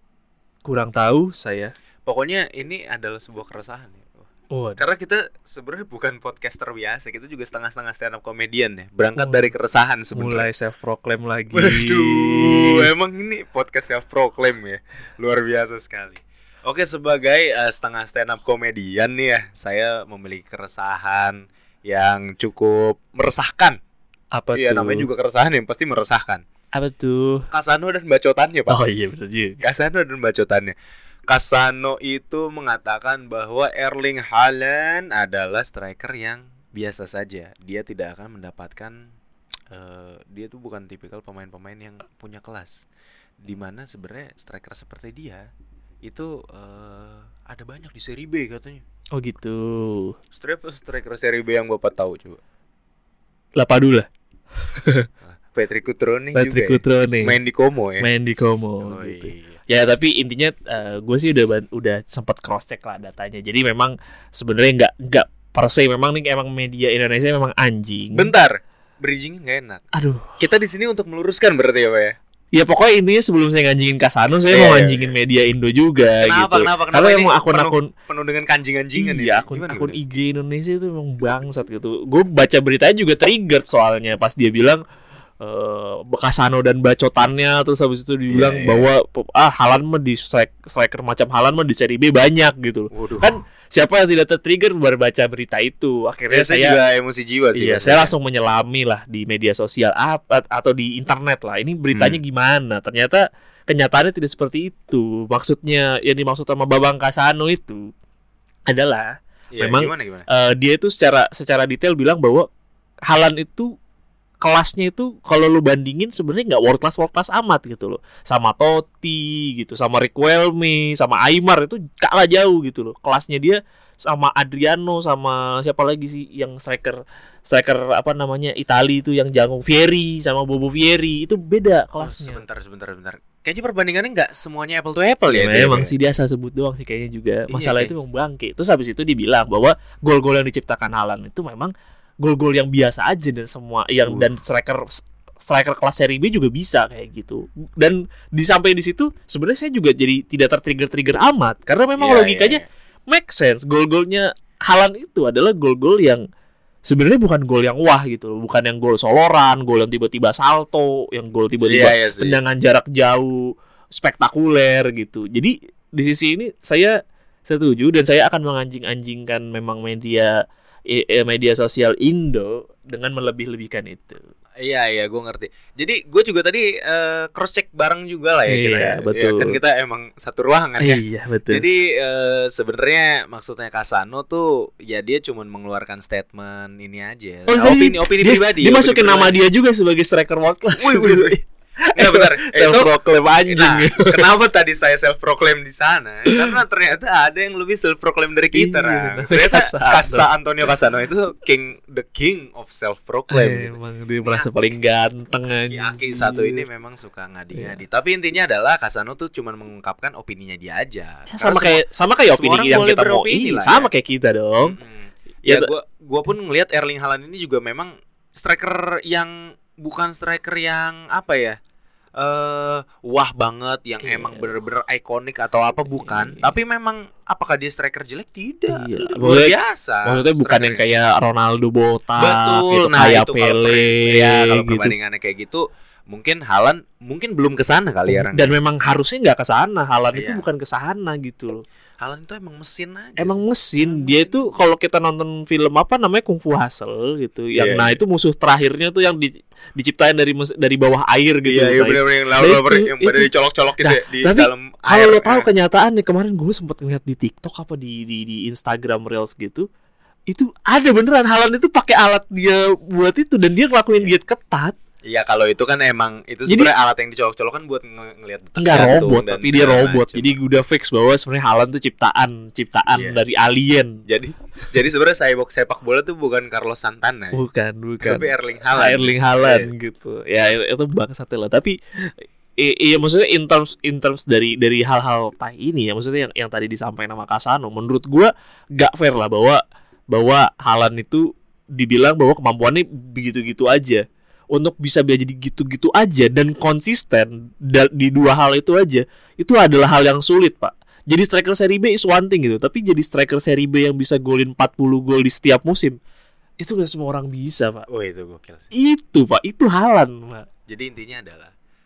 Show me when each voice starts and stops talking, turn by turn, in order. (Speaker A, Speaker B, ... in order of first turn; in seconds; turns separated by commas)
Speaker A: 0.6-1.7, Speaker B: 2.0-4.2, Speaker A: 4.5-4.8, Speaker B: 4.8-10.5, Speaker A: 9.2-9.5, Speaker A: 10.1-12.9, Speaker B: 11.5-23.8, Speaker A: 24.3-25.1, Speaker B: 24.5-26.4, Speaker A: 26.7-27.4, Speaker B: 27.5-28.8, Speaker A: 28.7-29.6, Speaker B: 29.6-30.7, Speaker B: 31.3-39.1, Speaker B: 39.7-42.8, Speaker B: 43.4-45.5, Speaker B: 46.0-48.8, Speaker A: 49.1-50.1, Speaker B: 50.3-52.4, Speaker A: 53.6-54.1, Speaker A: 54.8-55.1, Speaker B: 55.2-58.1, Speaker A: 56.3-57.4, Speaker A: 58.0-68.3, Speaker B: 58.8-59.6, Speaker B: 68.1-69.8, Speaker A: 69.9-70.4, Speaker B: 70.4-72.2, Speaker A: 72.5-77.9, Speaker B: 74.5-75.1, Speaker B: 76.2-80.0, Speaker A: 79.0-84.8, Speaker A: 85.4-96.8, Speaker B: 88.3-88.9, Speaker B: 92.9-93.4, Speaker B: 96.3-98.1, Speaker A: 97.5-107.8, Speaker B: 101.9-102.2, Speaker A: 108.7-109.1, Speaker B: 109.5-110.2, Speaker A: 109.6-112.5, Speaker A: 113.1-113.7, Speaker A: 114.4-132.4, Speaker B: 132.0-135.9, Speaker A: 135.3-156.2, Speaker B: 137.5-137.9, Speaker B: 152.0-152.6, Speaker A: 156.8-166.9, Speaker B: 161.7-162.4, Speaker A: 167.5-170.3, Speaker A: 170.9-174.2, Speaker B: 174.6-189.4, Speaker A: 178.5-179.6, Speaker A: 180.8-181.6, Speaker A: 187.5-194.3, Speaker B: 190.8-191.3, Speaker B: 191.9-204.5, Speaker A: 198.5-200.3, Speaker A: 203.3-206.6, Speaker B: 205.7-213.9, Speaker A: 207.5-207.8, Speaker A: 211.3-214.8, Speaker B: 214.6-221.6, Speaker A: 215.4-215.7, Speaker B: 222.2-230.8, Speaker A: 224.0-224.5, Speaker A: 225.8-226.5, Speaker A: 228.7-229.5, Speaker A: 230.1-234.9, Speaker B: 232.2-238.5, Speaker A: 238.1-241.6, Speaker B: 240.1-240.4, Speaker B: 242.0-244.5, Speaker A: 243.2-259.7, Speaker B: 247.6-248.0, Speaker B: 251.4-255.5, Speaker A: 260.3-264.8, Speaker B: 265.0-270.4, Speaker A: 266.5-266.7, Speaker A: 268.6-273.9, Speaker B: 272.9-273.2, Speaker B: 274.1-277.4, Speaker A: 277.3-281.8, Speaker B: 278.0-279.7, Speaker A: 282.6-294.0, Speaker A: 294.5-306.0, Speaker A: 306.6-307.9, Speaker B: 307.9-308.7, Speaker A: 308.7-310.4, Speaker B: 310.7-311.5